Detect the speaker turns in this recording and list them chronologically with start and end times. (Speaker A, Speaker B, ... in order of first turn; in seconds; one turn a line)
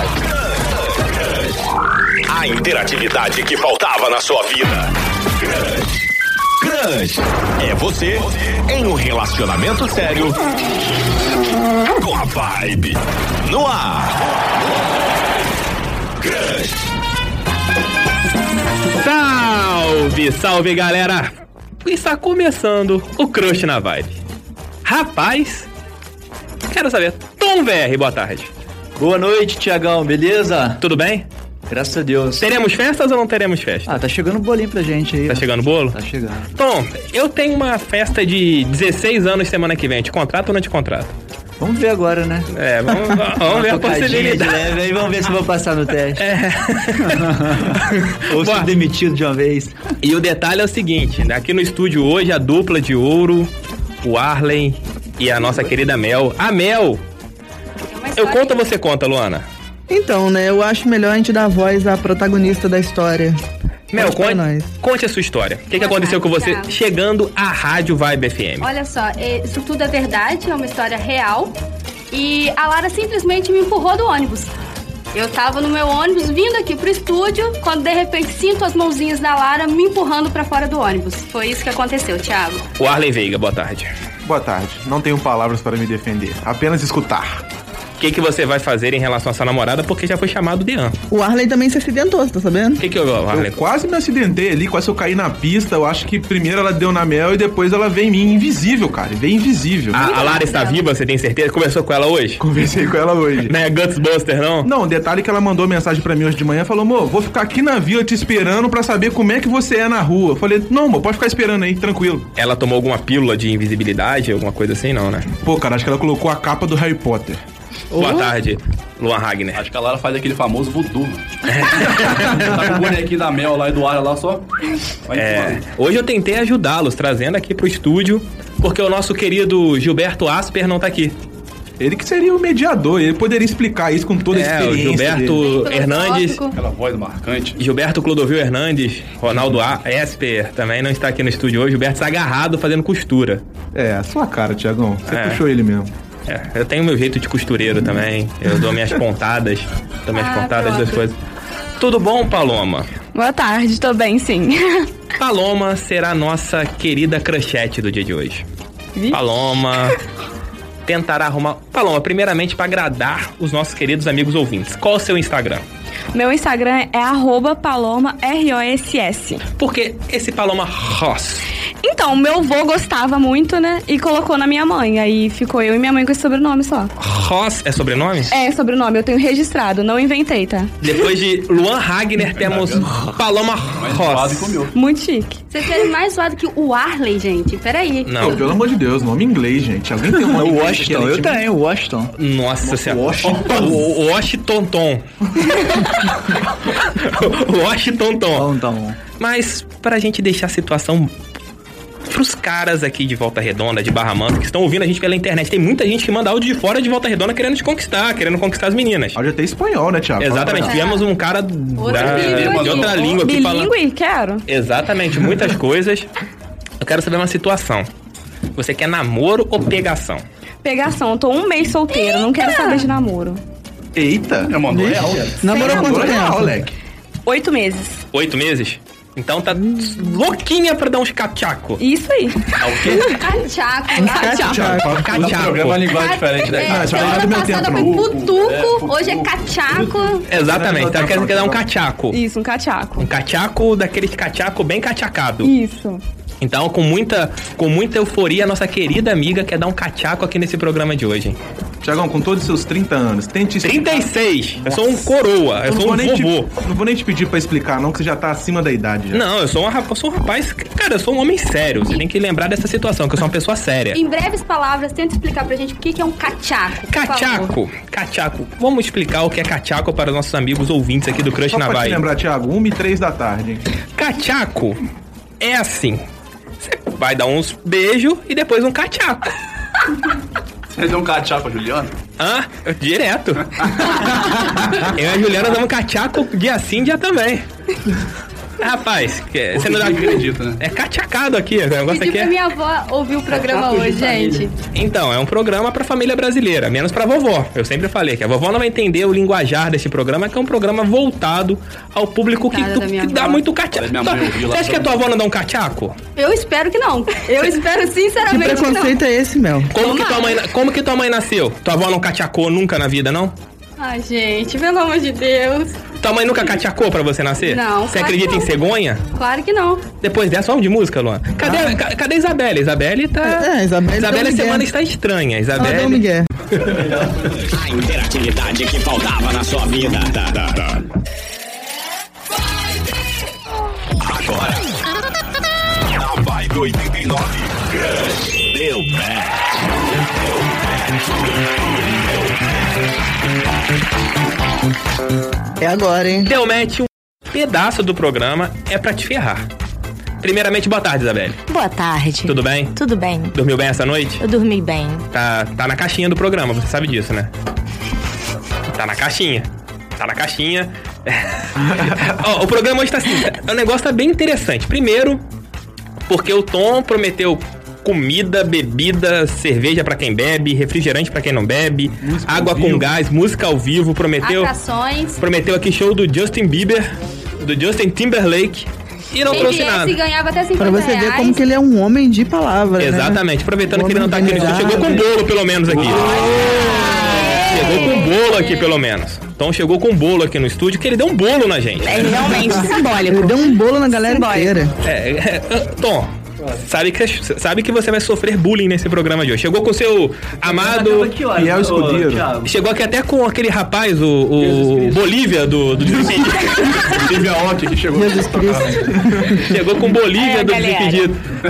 Speaker A: 2.3-4.9
Speaker A: 6.6-10.4
Speaker A: 12.0-14.2
Speaker A: 16.2-16.8
Speaker B: 18.9-21.3
Speaker B: 21.8-24.2
Speaker B: 24.9-25.7
Speaker B: 26.7-28.5
Speaker C: 29.0-30.8
Speaker B: 30.8-31.3
Speaker C: 31.7-32.6
Speaker B: 32.4-34.0
Speaker C: 33.9-36.5
Speaker B: 35.3-35.9
Speaker B: 36.5-41.1
Speaker C: 41.6-42.5
Speaker B: 42.5-44.7
Speaker C: 43.1-46.2
Speaker B: 46.2-47.2
Speaker C: 47.1-47.8
Speaker B: 47.8-48.7
Speaker C: 48.3-49.8
Speaker B: 50.0-53.5
Speaker B: 54.0-57.0
Speaker D: 57.9-58.6
Speaker B: 58.2-59.5
Speaker E: 59.9-63.4
Speaker B: 63.9-68.7
Speaker E: 64.0-64.7
Speaker D: 65.7-66.8
Speaker D: 68.6-71.6
Speaker D: 72.1-74.5
Speaker D: 75.1-82.6
Speaker B: 82.8-83.9
Speaker F: 84.2-87.4
Speaker B: 88.0-91.0
Speaker E: 91.1-92.8
Speaker B: 92.8-93.6
Speaker F: 93.3-100.0
Speaker B: 99.9-102.4
Speaker D: 100.0-100.8
Speaker G: 100.1-100.6
Speaker F: 102.4-103.5
Speaker B: 103.5-104.7
Speaker F: 104.6-112.3
Speaker B: 112.4-115.3
Speaker F: 115.4-117.4
Speaker B: 117.9-119.6
Speaker H: 119.5-124.5
Speaker B: 121.5-122.7
Speaker H: 125.1-125.7
Speaker B: 125.1-131.2
Speaker F: 131.8-135.4
Speaker B: 134.3-136.5
Speaker D: 135.3-136.5
Speaker H: 136.5-137.6
Speaker B: 137.6-143.4
Speaker F: 143.7-145.9
Speaker B: 145.1-145.4
Speaker B: 146.3-151.2
Speaker D: 150.2-150.9
Speaker G: 150.2-150.7
Speaker B: 151.8-152.9
Speaker G: 153.1-154.9
Speaker B: 155.2-158.4
Speaker B: 159.1-160.0
Speaker B: 160.9-165.6
Speaker G: 166.1-169.4
Speaker B: 169.6-171.5
Speaker G: 171.8-176.9
Speaker B: 177.0-178.3
Speaker G: 178.3-180.9
Speaker B: 180.8-184.6
Speaker H: 182.3-182.9
Speaker H: 183.8-184.8
Speaker G: 184.7-185.7
Speaker D: 185.5-188.2
Speaker B: 188.1-188.4
Speaker F: 188.2-191.4
Speaker C: 190.1-192.1
Speaker B: 192.1-196.0
Speaker F: 192.6-193.8
Speaker H: 193.4-193.7
Speaker B: 197.0-198.5
Speaker C: 198.3-199.0
Speaker B: 199.2-201.1
Speaker B: 202.1-209.2
Speaker F: 209.2-210.8
Speaker B: 210.2-213.7
Speaker D: 210.7-211.0
Speaker D: 211.8-213.1
Speaker H: 211.8-213.1
Speaker G: 213.1-214.4
Speaker B: 214.5-216.1
Speaker B: 216.8-217.9
Speaker B: 218.6-220.2
Speaker G: 220.6-223.4
Speaker F: 224.0-224.6
Speaker H: 224.4-225.4
Speaker E: 224.7-226.6
Speaker F: 225.3-226.8
Speaker G: 225.5-226.3
Speaker G: 227.3-228.0
Speaker B: 228.1-231.8
Speaker G: 231.8-233.2
Speaker H: 232.6-233.2
Speaker D: 233.2-234.5
Speaker E: 233.9-235.0
Speaker G: 234.1-234.8
Speaker F: 234.4-235.4
Speaker B: 234.8-236.6
Speaker H: 235.0-239.7
Speaker D: 236.0-240.3
Speaker F: 236.5-238.1
Speaker B: 240.2-242.2
Speaker F: 240.3-241.6
Speaker G: 242.1-243.1
Speaker B: 243.0-245.5
Speaker G: 245.4-246.0
Speaker B: 246.4-251.4
Speaker F: 251.8-254.1
Speaker B: 253.6-256.5
Speaker F: 255.7-259.2
Speaker B: 259.1-264.0
Speaker D: 263.9-267.5
Speaker B: 266.9-272.0
Speaker F: 271.5-273.6
Speaker B: 274.0-274.8
Speaker B: 275.4-276.0
Speaker B: 276.6-279.3
Speaker H: 280.7-281.9
Speaker B: 282.2-287.4
Speaker B: 288.6-292.4
Speaker H: 289.5-290.6
Speaker D: 291.9-294.5
Speaker B: 294.7-306.0
Speaker D: 302.3-303.4
Speaker H: 303.7-304.9
Speaker D: 306.2-309.0
Speaker E: 308.3-309.7
Speaker B: 309.7-313.4
Speaker D: 309.8-310.4
Speaker D: 313.8-315.7
Speaker B: 316.0-319.0
Speaker D: 317.4-318.5
Speaker D: 319.1-319.9
Speaker B: 320.0-326.0
Speaker E: 323.2-324.7
Speaker E: 325.6-326.3
Speaker A: 327.5-330.8
Speaker A: 334.0-334.6
Speaker A: 336.0-337.6
Speaker A: 338.3-339.3
Speaker E: 345.6-346.3
Speaker B: 346.3-349.4
Speaker B: 350.2-351.4
Speaker I: 351.5-353.4
Speaker B: 352.2-352.8
Speaker B: 353.3-354.2
Speaker I: 354.2-355.1
Speaker B: 355.1-357.3
Speaker B: 358.7-365.2
Speaker F: 361.7-362.1
Speaker B: 366.1-374.5
Speaker F: 372.0-372.9
Speaker D: 374.2-375.2
Speaker B: 375.2-380.0
Speaker D: 379.3-381.4
Speaker E: 380.6-385.0
Speaker B: 382.8-386.1
Speaker H: 385.8-386.1
Speaker I: 386.1-388.1
Speaker B: 387.4-392.5
Speaker I: 391.8-394.5
Speaker E: 392.3-394.7
Speaker B: 394.8-396.1
Speaker B: 396.6-401.1
Speaker C: 400.4-402.5
Speaker F: 401.3-402.3
Speaker B: 402.4-407.1
Speaker C: 404.4-405.1
Speaker F: 405.9-406.5
Speaker H: 406.6-409.1
Speaker E: 407.9-409.3
Speaker B: 409.3-411.2
Speaker I: 410.2-411.1